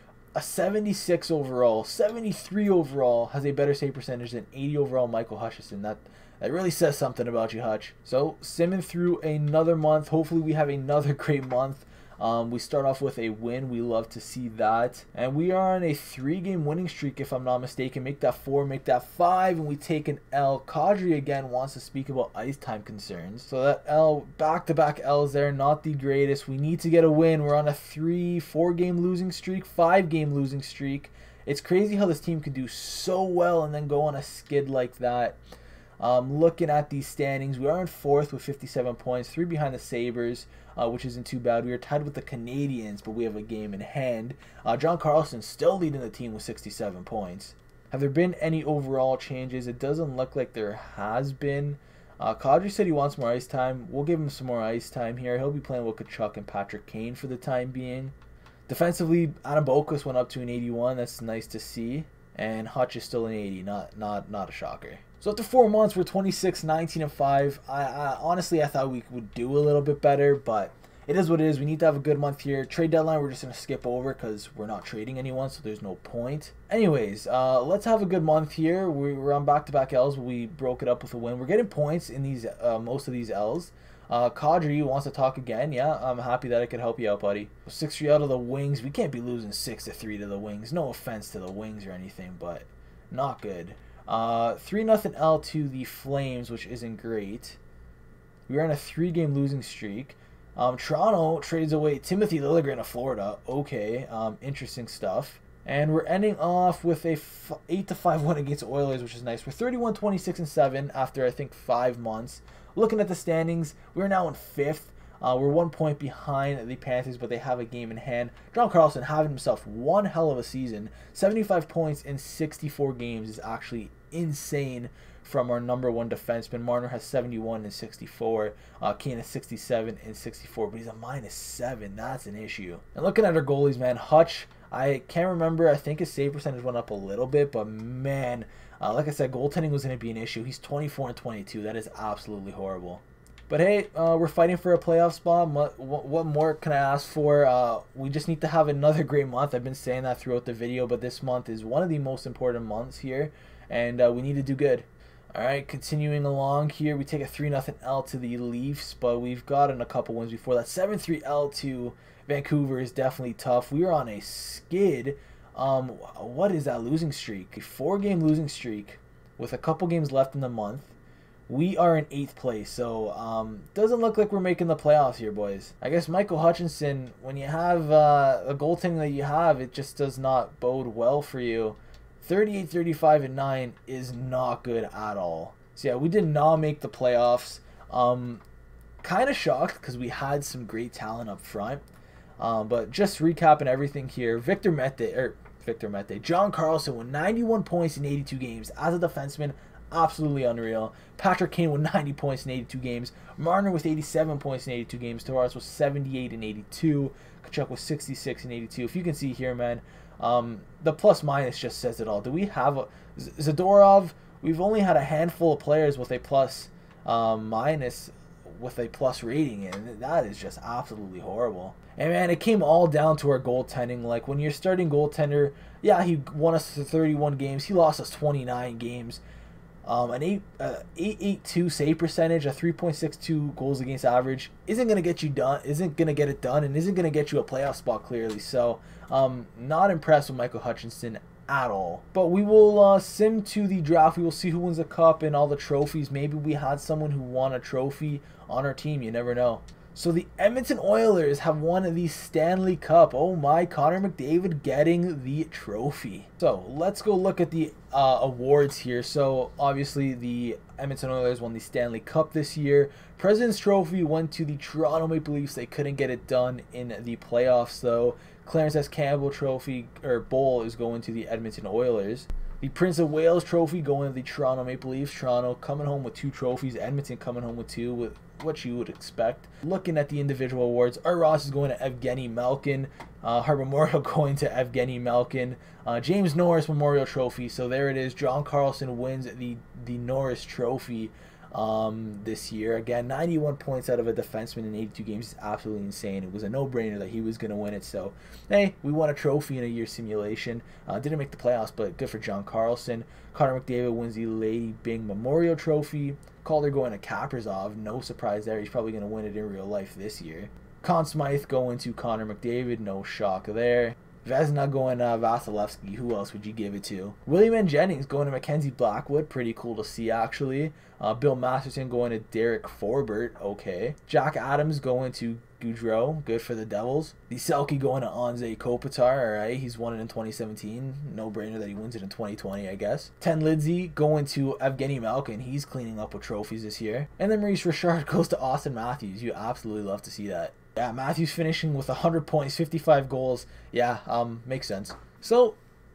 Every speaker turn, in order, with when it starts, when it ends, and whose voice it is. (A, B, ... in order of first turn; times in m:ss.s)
0:00.4-0:35.4 A
0:36.0-0:58.1 A
0:58.7-1:37.6 A
1:38.5-2:50.9 A
2:51.5-3:08.4 A
3:09.0-3:11.8 A
3:12.4-3:49.2 A
3:49.8-5:45.6 A